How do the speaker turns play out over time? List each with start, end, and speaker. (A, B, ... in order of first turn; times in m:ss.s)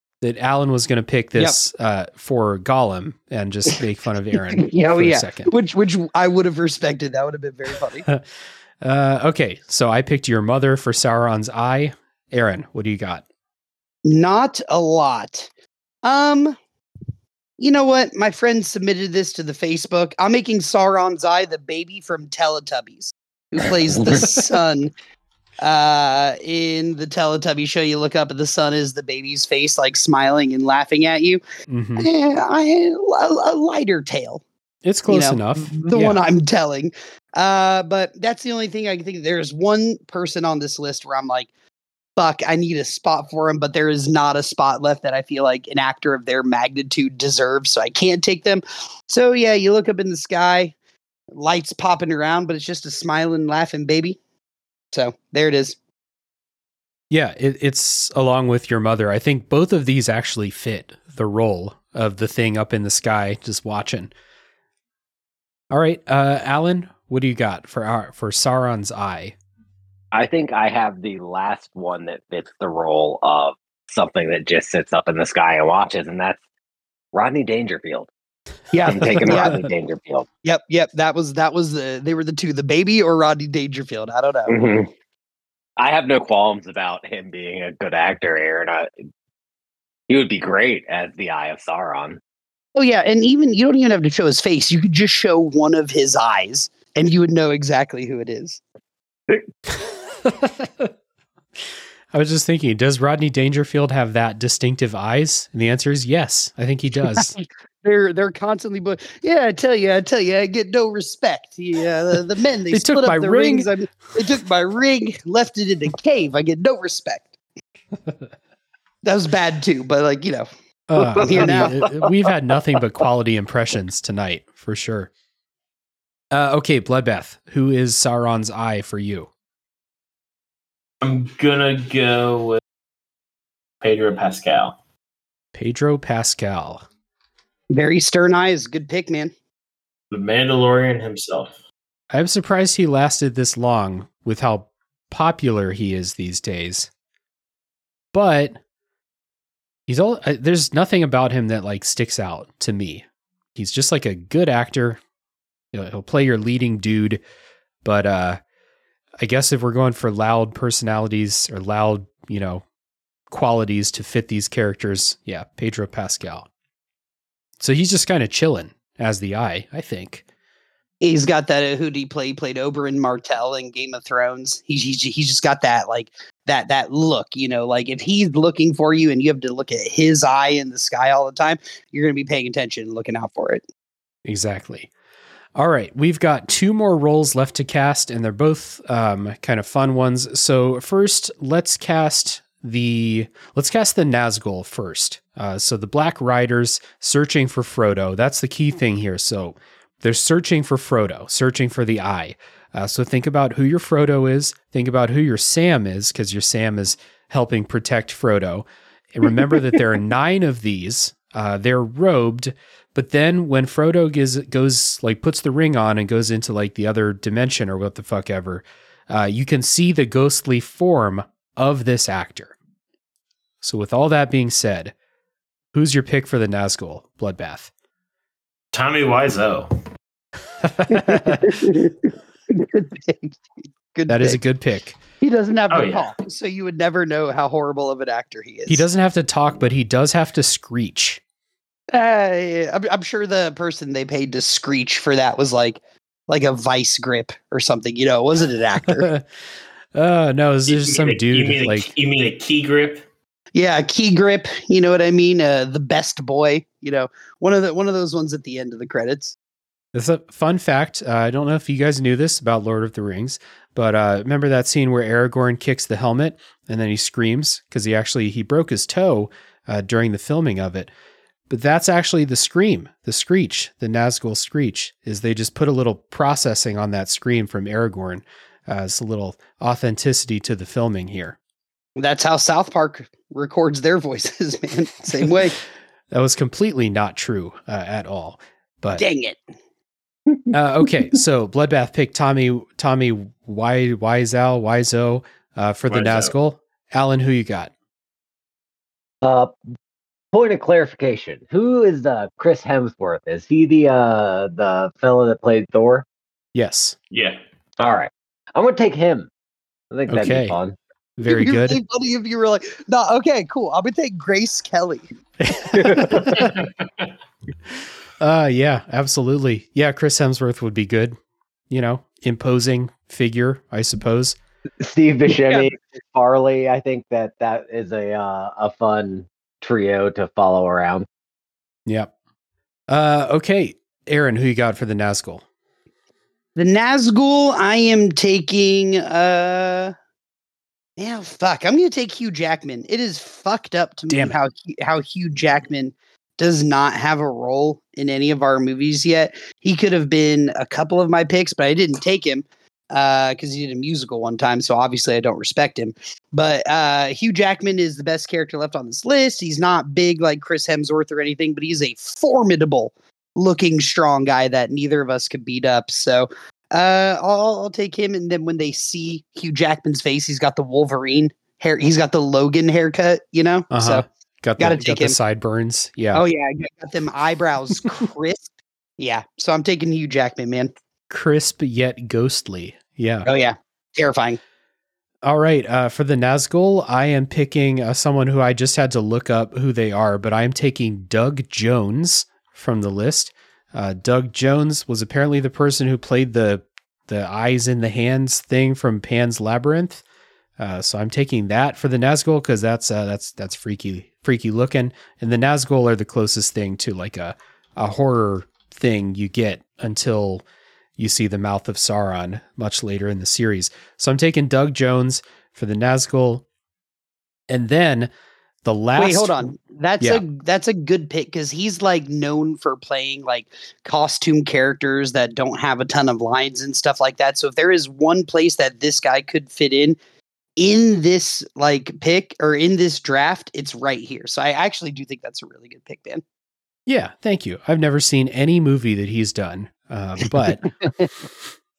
0:00.2-0:05.5 A
0:04.6-0:08.0 B
0:08.8-0:13.2 A
0:14.0-0:15.5 B
0:16.0-0:16.6 B
0:17.6-0:24.9 B
0:25.6-0:31.4 B
0:31.7-0:32.1 A
0:32.0-0:34.4 B
0:34.8-0:36.2 A
0:35.1-0:41.5 B
0:42.2-0:50.7 B
0:51.3-0:54.2 B
0:54.9-0:55.8 B
0:57.1-1:04.1 A
1:05.7-1:09.3 A
1:10.1-1:16.4 C
1:17.1-1:18.1 C
1:18.7-1:19.6 B
1:18.8-1:20.2 C
1:19.2-1:19.7 A
1:20.4-1:24.6 B
1:24.5-1:24.9 C
1:25.8-1:28.9 C
1:30.1-1:32.2 C
1:32.7-1:38.6 B
1:39.7-1:40.9 A
1:42.1-1:47.3 A
1:47.1-1:57.3 B
1:52.7-1:53.7 A
1:59.0-2:00.5 B
2:00.9-2:05.1 A
2:01.0-2:02.1 C
2:01.2-2:01.7 B
2:06.3-2:09.3 A
2:11.0-2:12.6 D
2:13.8-2:14.8 D
2:15.5-2:16.8 A
2:17.7-2:19.3 B
2:20.1-2:21.6 D
2:22.1-2:26.9 A
2:28.1-2:28.6 A
2:29.9-2:35.0 A
2:35.7-2:37.2 A
2:37.8-2:38.4 A
2:39.2-2:42.6 A
2:43.3-2:46.5 A
2:47.6-2:50.2 A
2:51.0-3:03.6 B
3:04.2-3:04.9 A
3:05.5-3:42.5 A
3:43.6-3:44.9 A
3:45.7-3:47.7 A
3:48.7-3:49.7 D
3:50.6-3:51.5 A
3:50.9-3:53.4 B
3:53.9-3:54.4 B
3:54.1-3:55.0 A
3:55.2-3:58.8 B
3:55.7-3:56.1 D
3:58.7-4:01.2 A
4:01.9-4:09.1 B
4:08.9-4:09.2 A
4:09.9-4:11.9 A
4:10.7-4:13.0 D
4:13.5-4:19.3 B
4:19.9-4:30.9 A
4:31.5-4:41.4 A
4:42.0-4:45.6 B
4:46.1-4:49.0 A
4:49.0-4:49.4 B
4:50.5-4:57.7 A
4:55.9-4:56.3 D
4:59.2-4:59.6 C
5:00.3-5:06.0 C
5:06.5-5:07.0 A
5:07.1-5:07.4 D
5:07.8-5:09.3 C
5:09.9-5:10.8 C
5:10.1-5:10.6 A
5:11.2-5:11.8 A
5:11.2-5:15.0 B
5:15.4-5:16.5 A
5:15.7-5:16.5 C
5:18.2-5:21.2 A
5:21.7-5:24.4 A
5:24.8-5:31.0 C
5:31.8-5:32.1 A
5:32.9-5:35.4 A
5:36.5-5:39.9 B
5:41.0-6:14.0 B
5:44.1-5:44.4 A
6:13.7-6:16.2 A
6:14.6-6:15.1 B
6:16.1-6:20.7 B
6:21.1-6:23.3 A
6:23.2-6:24.4 B
6:25.2-6:40.0 A
6:40.6-6:50.4 A
6:51.0-6:56.4 A
6:57.5-6:58.1 A
6:58.6-6:59.4 A
6:59.0-7:10.0 B
7:10.6-7:16.2 B
7:16.9-7:20.7 A
7:20.4-7:21.1 B